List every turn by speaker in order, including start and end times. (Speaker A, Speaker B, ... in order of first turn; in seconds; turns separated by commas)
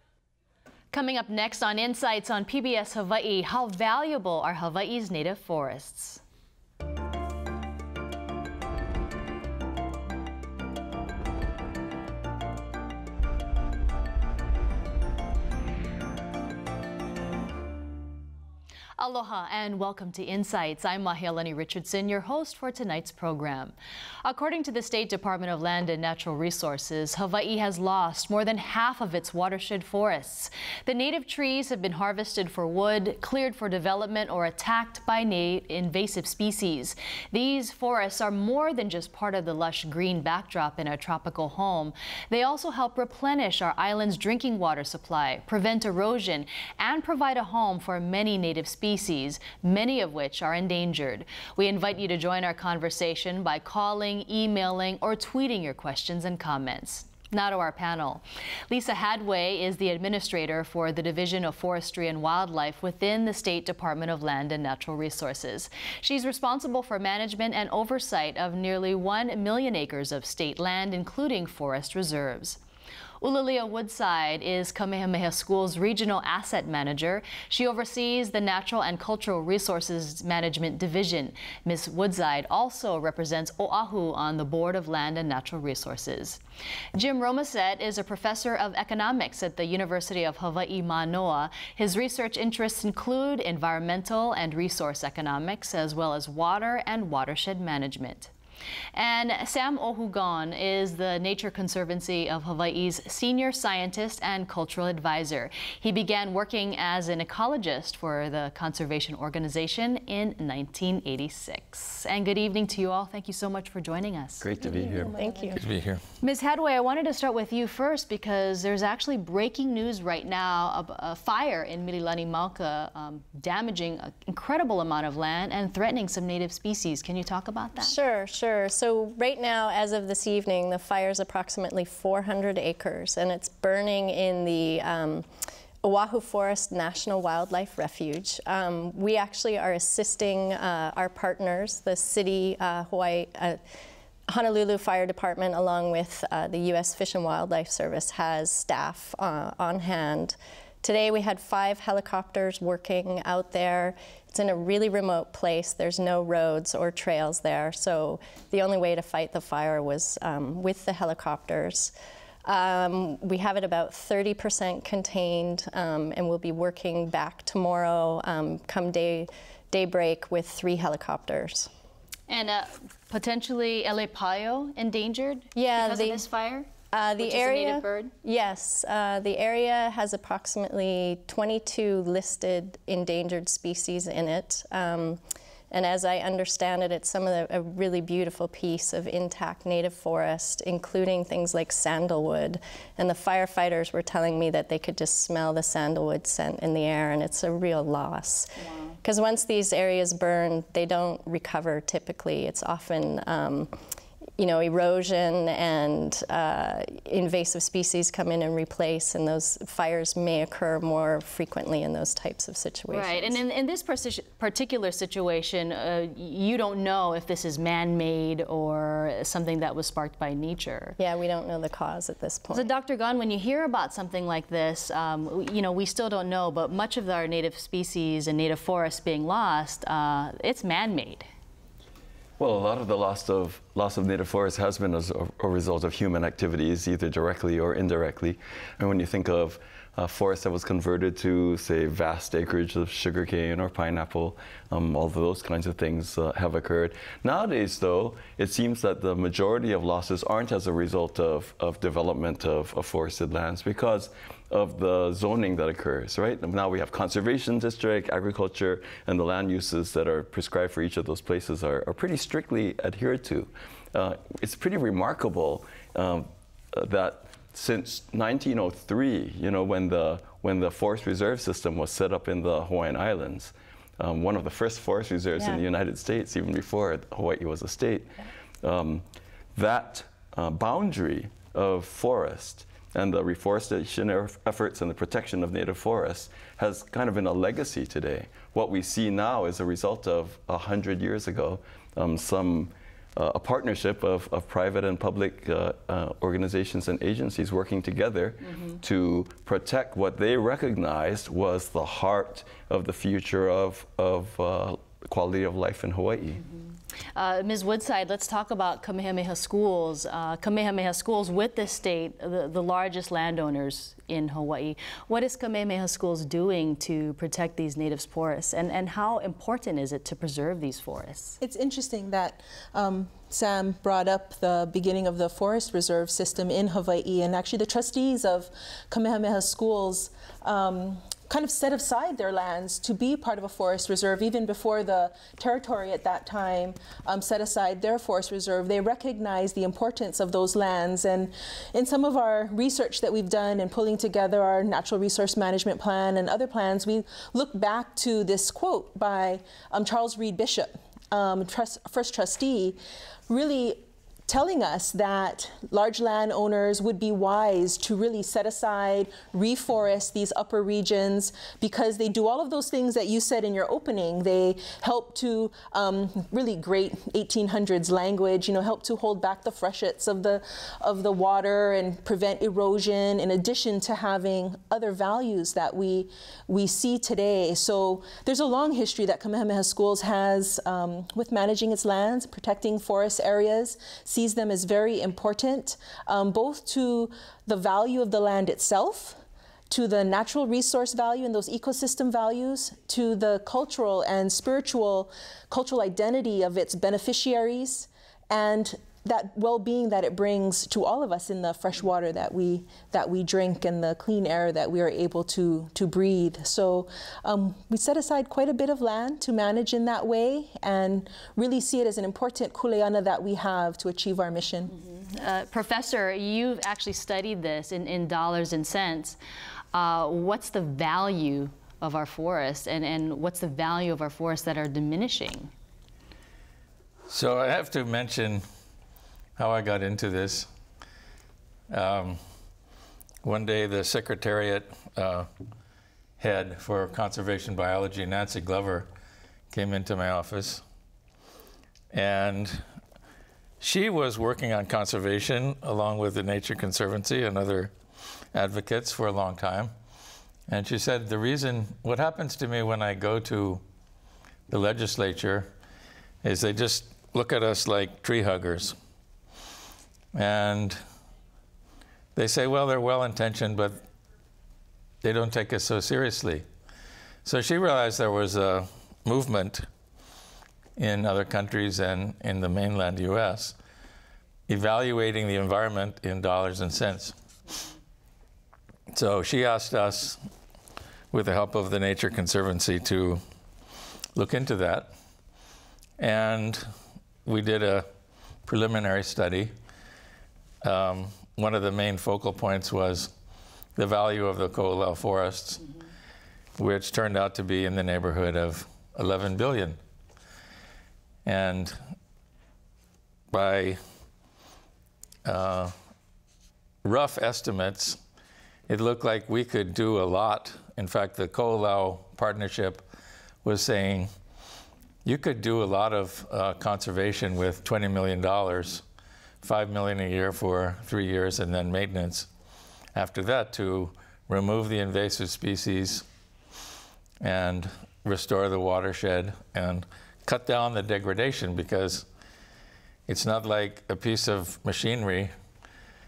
Speaker A: 0.9-6.2, Speaker A: 19.0-72.6, Speaker A: 73.2-86.4, Speaker A: 87.0-98.3, Speaker A: 98.9-114.5, Speaker B: 114.4-115.2, Speaker C: 114.6-115.6, Speaker D: 115.0-115.6, Speaker E: 115.6-116.0, Speaker A: 116.2-128.0, Speaker D: 127.8-135.2, Speaker D: 135.8-143.6, Speaker D: 144.3-161.9, Speaker D: 162.4-171.7, Speaker A: 172.3-178.1, Speaker D: 175.5-176.2, Speaker D: 176.9-185.2, Speaker D: 185.7-203.7, Speaker A: 198.6-198.9, Speaker D: 204.4-213.4, Speaker A: 212.9-221.0, Speaker D: 221.0-222.7, Speaker A: 222.5-231.3, Speaker B: 232.4-306.4, Speaker A: 307.1-321.4, Speaker C: 321.4-352.8, Speaker C: 353.3-389.2, Speaker C: 389.7-414.7, Speaker A: 414.8-419.2, Speaker A: 419.7-425.5, Speaker E: 427.1-428.4, Speaker E: 429.4-430.5, Speaker E: 431.7-432.2, Speaker E: 433.2-435.3, Speaker E: 436.2-438.9, Speaker E: 439.5-440.6, Speaker E: 441.9-442.6, Speaker E: 443.6-447.7, Speaker E: 448.3-449.7, Speaker E: 450.5-453.6, Speaker E: 454.5-455.5, Speaker E: 456.2-458.8, Speaker E: 460.1-460.8, Speaker E: 462.1-463.8, Speaker E: 465.0-466.4, Speaker E: 467.2-469.7, Speaker E: 470.8-473.6, Speaker E: 474.5-477.1, Speaker E: 478.9-480.2, Speaker E: 481.1-483.2, Speaker E: 484.1-484.9, Speaker E: 486.0-486.7, Speaker E: 487.2-487.9, Speaker E: 488.5-489.5, Speaker E: 490.6-493.1, Speaker E: 493.8-495.6, Speaker E: 496.6-499.8, Speaker E: 501.2-501.8, Speaker E: 503.3-503.8, Speaker E: 505.2-505.7, Speaker E: 506.8-508.0, Speaker E: 508.7-512.8, Speaker E: 513.4-514.1, Speaker E: 515.0-518.8, Speaker E: 519.4-522.3, Speaker E: 523.0-526.0, Speaker E: 527.2-532.1, Speaker E: 533.1-535.3